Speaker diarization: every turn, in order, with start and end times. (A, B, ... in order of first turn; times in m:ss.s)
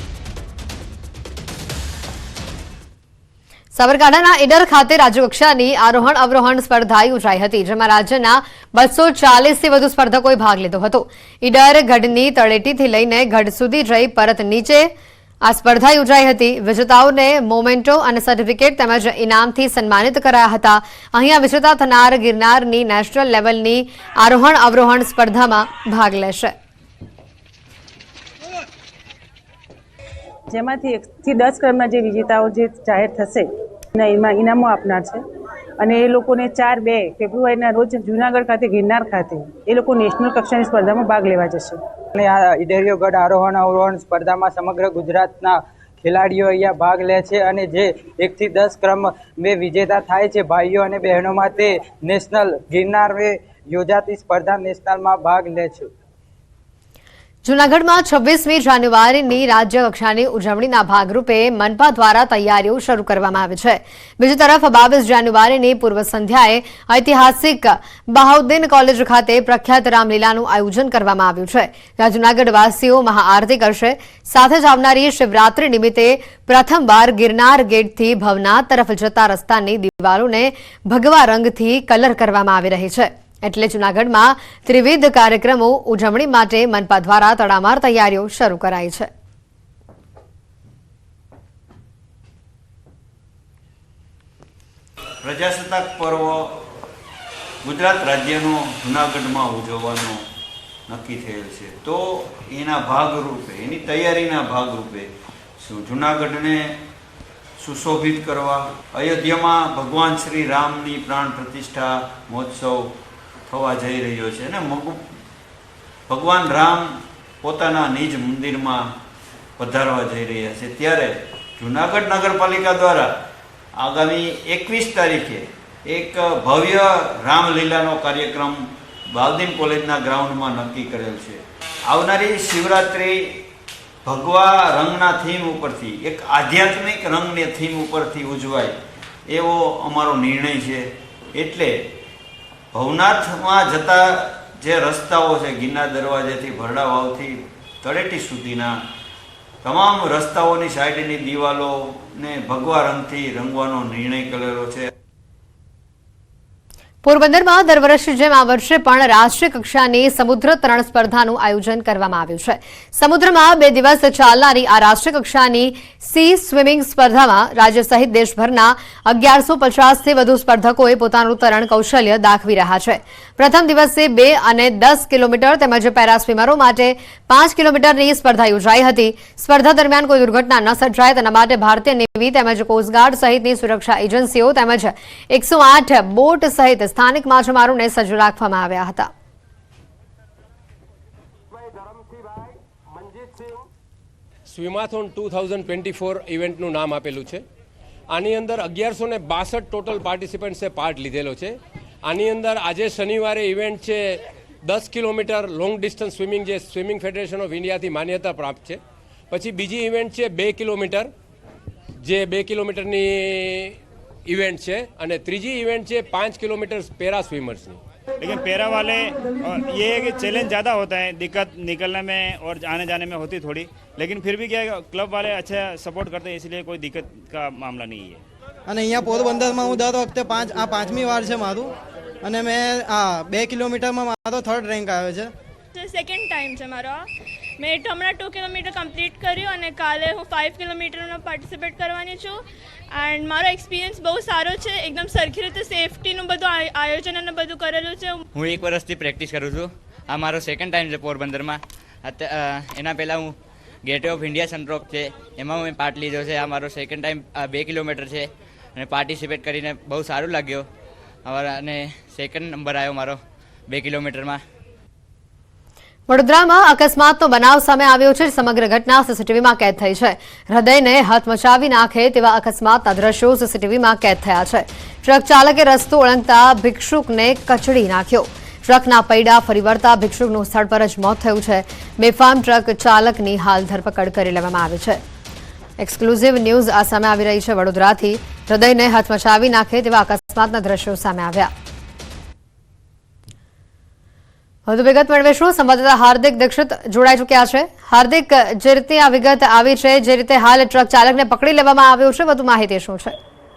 0:03.8-0:14.9 A
0:15.4-0:26.5 A
0:30.5-0:35.2 B
0:35.8-0:41.8 B
0:42.2-0:55.9 C
0:57.4-1:29.1 A
1:35.2-1:36.6 D
1:37.6-1:40.2 D
1:40.9-1:45.1 D
1:45.6-1:46.8 D
1:47.6-1:52.9 D
1:53.5-1:55.0 D
1:56.1-1:58.9 D
1:59.6-2:03.1 D
2:03.8-2:13.4 D
2:14.0-2:18.8 D
2:19.3-2:21.8 D
2:22.7-2:28.7 D
2:29.6-2:34.9 D
2:37.0-3:09.1 A
3:11.9-3:12.4 E
3:13.0-3:13.4 E
3:14.5-3:17.4 E
3:18.1-3:31.1 E
3:32.0-3:37.8 E
3:38.2-3:48.2 F
3:48.7-3:51.7 G
3:52.2-3:55.3 G
3:55.7-3:57.0 H
3:57.6-4:02.4 H
4:02.9-4:08.2 H
4:08.4-4:20.7 I
4:21.3-4:24.4 I
4:26.1-4:45.0 A
4:45.8-4:51.5 A
4:54.7-5:03.2 A